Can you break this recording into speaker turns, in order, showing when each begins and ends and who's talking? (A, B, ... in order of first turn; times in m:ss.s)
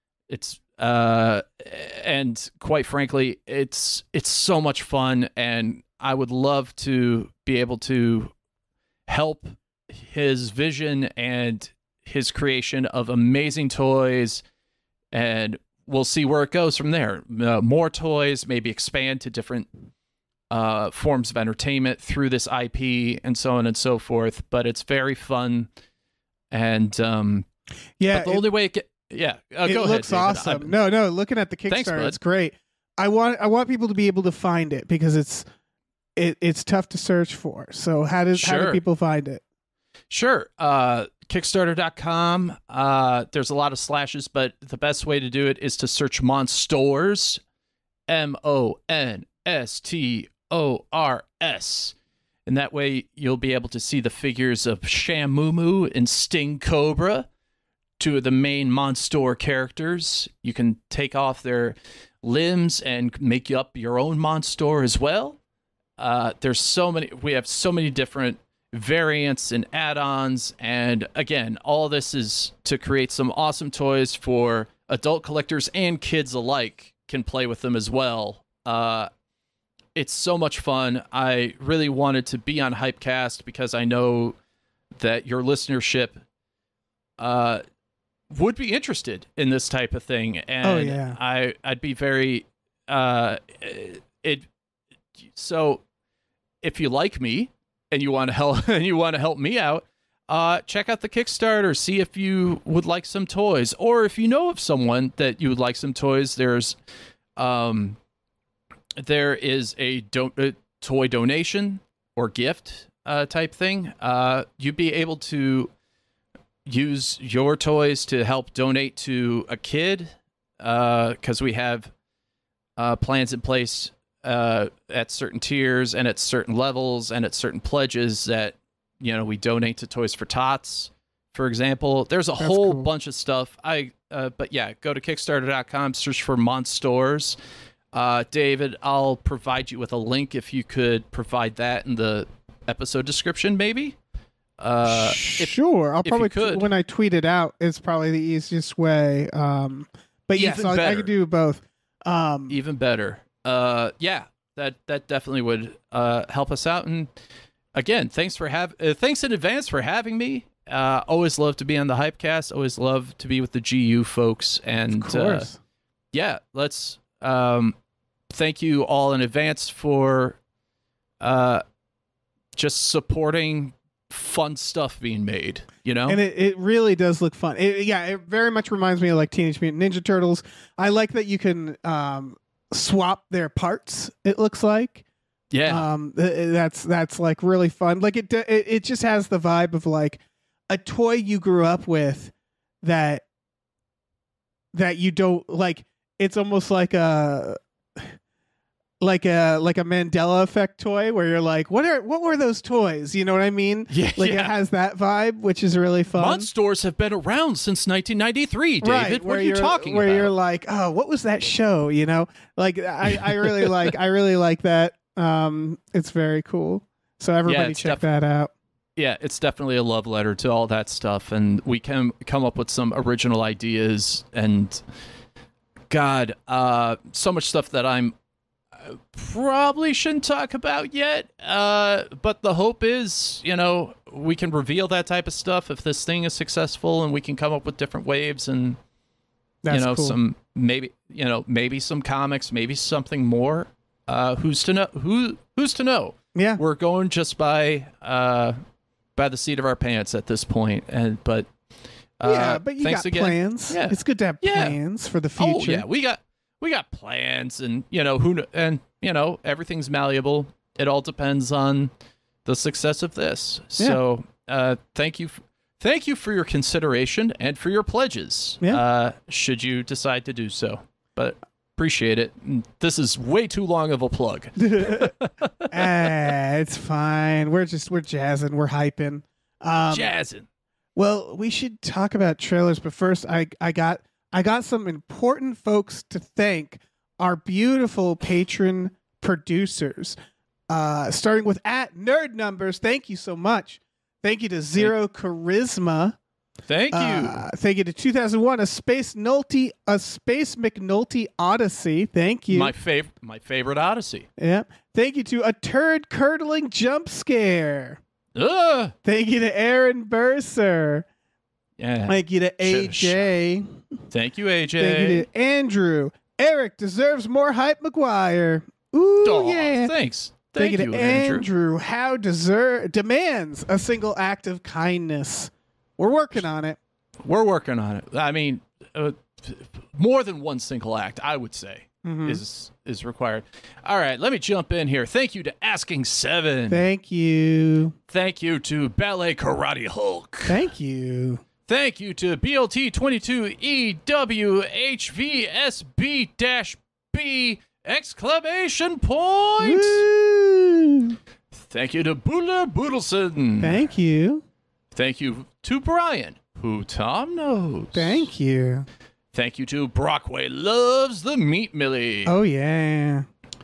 0:00.3-0:08.3 A
0:09.1-0:14.4 A
0:15.1-0:19.7 A
0:20.5-0:25.7 A
0:26.5-0:27.5 A
0:28.0-0:28.5 B
0:28.1-0:30.7 A
0:29.6-0:35.5 B
0:31.7-0:32.2 A
0:36.2-0:39.4 B
0:38.3-0:38.8 A
0:40.1-0:47.4 A
0:48.1-0:52.0 A
0:52.5-0:57.3 A
0:58.0-1:05.4 A
1:06.0-1:19.1 A
1:20.0-1:24.4 A
1:25.0-1:26.2 A
1:27.2-1:27.6 A
1:28.3-1:34.5 A
1:30.6-1:31.2 B
1:35.2-1:35.8 A
1:36.6-1:46.8 A
1:47.4-1:48.0 A
1:49.0-1:55.7 A
1:56.7-2:01.9 A
2:02.8-2:17.4 A
2:12.4-2:12.9 B
2:17.9-2:24.0 A
2:24.6-2:26.7 A
2:24.9-2:32.6 B
2:30.3-2:31.1 A
2:32.5-2:37.1 A
2:37.7-2:45.5 A
2:44.9-2:45.6 B
2:46.1-2:47.8 A
2:48.3-2:50.4 A
2:51.2-2:51.6 A
2:52.6-2:56.2 A
2:56.1-3:05.0 B
3:05.5-3:05.9 A
3:05.7-3:13.2 B
3:14.7-3:18.2 B
3:19.0-3:26.5 B
3:23.9-3:24.6 A
3:26.1-3:30.3 A
3:28.8-3:38.5 B
3:33.1-3:33.9 A
3:37.5-3:38.0 A
3:39.0-3:44.8 A
3:45.9-3:48.2 A
3:48.8-3:58.8 A
3:59.6-4:00.2 B
3:59.7-4:08.6 A
4:06.4-4:06.6 B
4:09.2-4:11.5 A
4:12.2-4:14.8 A
4:12.2-4:15.9 B
4:15.4-4:21.9 A
4:22.4-4:35.8 A
4:34.6-4:35.1 B
4:35.7-4:40.1 B
4:39.9-4:40.5 A
4:41.0-4:50.2 B
4:50.7-4:56.2 B
4:56.7-4:57.4 A
4:56.9-5:02.7 B
5:02.5-5:04.3 A
5:04.4-5:08.0 B
5:08.4-5:09.0 A
5:09.0-5:11.1 B
5:11.8-5:13.2 A
5:12.1-5:13.8 B
5:14.1-5:15.2 A
5:14.8-5:19.9 B
5:19.2-5:21.5 A
5:20.6-5:26.8 B
5:27.2-5:36.8 A
5:32.0-5:32.4 B
5:36.7-5:38.0 B
5:38.1-5:40.7 A
5:40.5-5:41.4 B
5:41.7-5:50.1 A
5:49.6-5:51.2 B
5:51.5-5:53.9 A
5:53.6-5:54.4 B
5:54.9-5:58.3 A
5:57.9-5:58.9 B
5:59.3-6:02.4 A
6:02.3-6:03.3 B